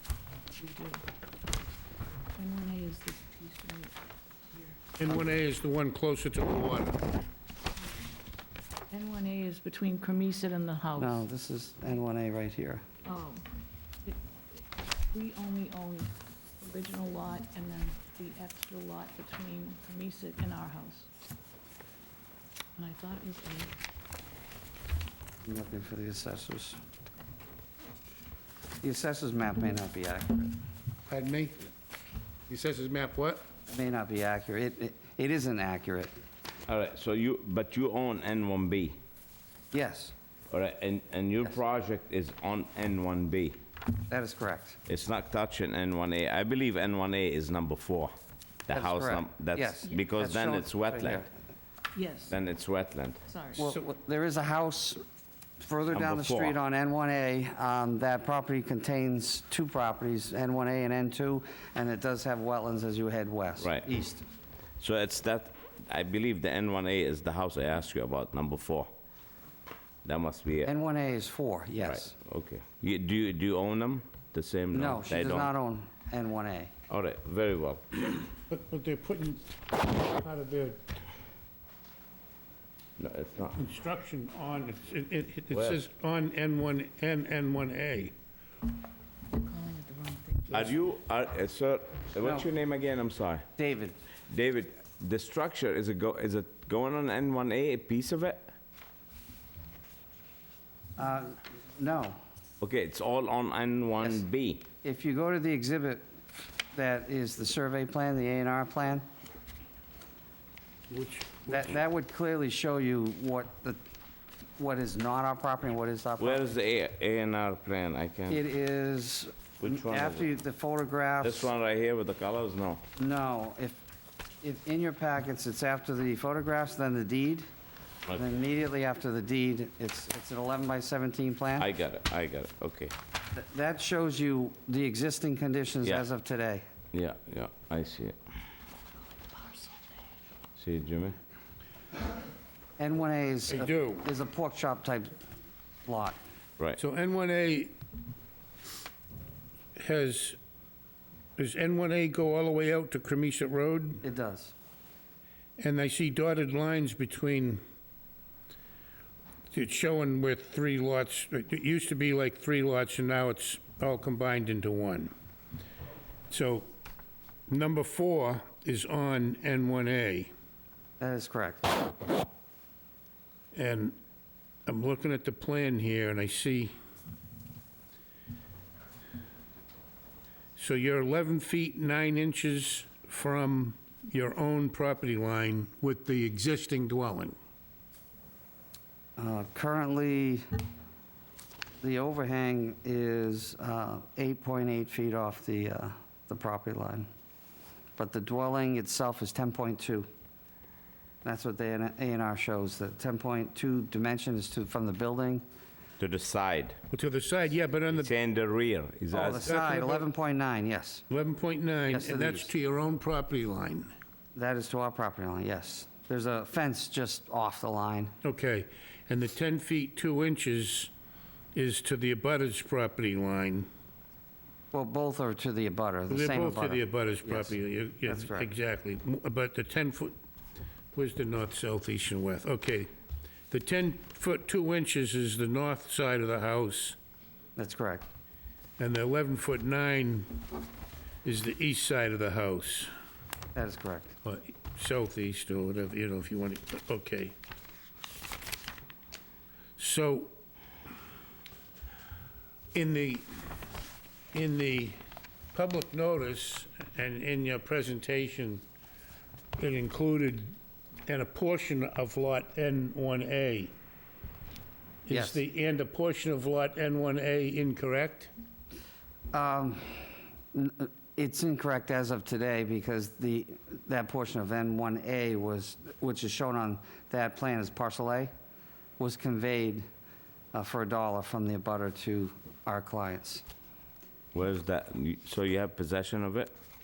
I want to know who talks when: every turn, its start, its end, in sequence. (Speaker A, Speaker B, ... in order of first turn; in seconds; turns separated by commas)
Speaker A: 0.6-1.0, Speaker A: 2.4-4.0, Speaker A: 4.5-4.8, Speaker B: 5.0-7.0, Speaker A: 8.9-11.2, Speaker C: 11.0-12.8, Speaker A: 13.1-13.5, Speaker A: 14.0-14.6, Speaker A: 15.1-21.1, Speaker A: 22.8-23.7, Speaker C: 25.4-26.8, Speaker C: 28.8-30.6, Speaker B: 31.1-31.6, Speaker B: 32.5-33.4, Speaker C: 33.7-36.1, Speaker D: 36.7-39.0, Speaker C: 39.7-40.1, Speaker D: 40.5-43.6, Speaker C: 44.1-44.8, Speaker D: 44.9-48.1, Speaker D: 48.7-51.2, Speaker C: 48.7-51.3, Speaker A: 51.9-52.4, Speaker D: 52.3-53.2, Speaker A: 53.3-53.7, Speaker C: 53.5-55.0, Speaker C: 55.6-64.2, Speaker D: 55.9-56.5, Speaker D: 63.6-63.9, Speaker D: 64.8-68.9, Speaker D: 70.0-70.7, Speaker C: 70.6-72.1, Speaker D: 71.8-75.5, Speaker C: 74.7-76.7, Speaker D: 76.9-78.2, Speaker B: 78.5-80.8, Speaker D: 83.0-83.6, Speaker B: 83.5-88.1, Speaker D: 85.5-85.8, Speaker A: 89.3-90.7, Speaker D: 90.5-93.4, Speaker C: 93.6-94.0, Speaker D: 94.3-98.5, Speaker C: 101.0-102.2, Speaker D: 102.6-104.7, Speaker C: 104.8-106.0, Speaker C: 106.7-109.0, Speaker B: 110.9-111.6, Speaker C: 111.5-113.8, Speaker C: 114.6-116.5, Speaker D: 116.2-118.4, Speaker C: 118.3-121.5, Speaker D: 119.6-120.3, Speaker D: 121.2-122.8, Speaker C: 123.0-123.8, Speaker C: 124.4-127.4, Speaker C: 128.1-131.7, Speaker D: 131.6-132.9, Speaker C: 133.3-136.6, Speaker D: 136.9-138.2, Speaker D: 140.6-141.2, Speaker C: 142.8-145.2, Speaker B: 143.5-144.1, Speaker C: 145.8-146.2, Speaker B: 146.8-147.7, Speaker B: 149.8-150.4, Speaker B: 151.4-154.0, Speaker C: 154.0-154.5, Speaker B: 155.6-157.6, Speaker B: 159.5-165.1, Speaker B: 166.3-166.7, Speaker B: 167.5-170.3, Speaker C: 171.0-171.7, Speaker B: 173.5-173.9, Speaker B: 174.7-176.7, Speaker B: 180.6-187.3, Speaker C: 189.2-190.4, Speaker C: 191.8-197.1, Speaker C: 198.0-200.1, Speaker C: 201.2-205.4, Speaker D: 206.0-206.8, Speaker B: 206.9-208.1, Speaker D: 207.9-209.5, Speaker C: 209.1-211.0, Speaker B: 209.3-210.1, Speaker B: 211.1-213.9, Speaker C: 211.9-212.5, Speaker C: 214.3-218.1, Speaker B: 218.2-220.9, Speaker B: 221.5-223.7, Speaker C: 224.7-228.5, Speaker B: 226.1-230.1, Speaker B: 230.9-232.9, Speaker B: 233.5-237.0, Speaker C: 237.6-238.1, Speaker B: 238.8-240.4, Speaker B: 241.2-242.9, Speaker C: 243.5-244.2, Speaker B: 244.2-247.3, Speaker B: 249.8-250.3, Speaker B: 252.7-253.4, Speaker B: 254.3-254.9, Speaker B: 255.5-258.6, Speaker B: 259.6-260.6, Speaker B: 261.1-263.7, Speaker B: 265.1-268.3, Speaker C: 265.1-265.4, Speaker C: 269.3-278.3, Speaker C: 279.0-279.8, Speaker C: 280.5-283.4, Speaker D: 284.3-286.5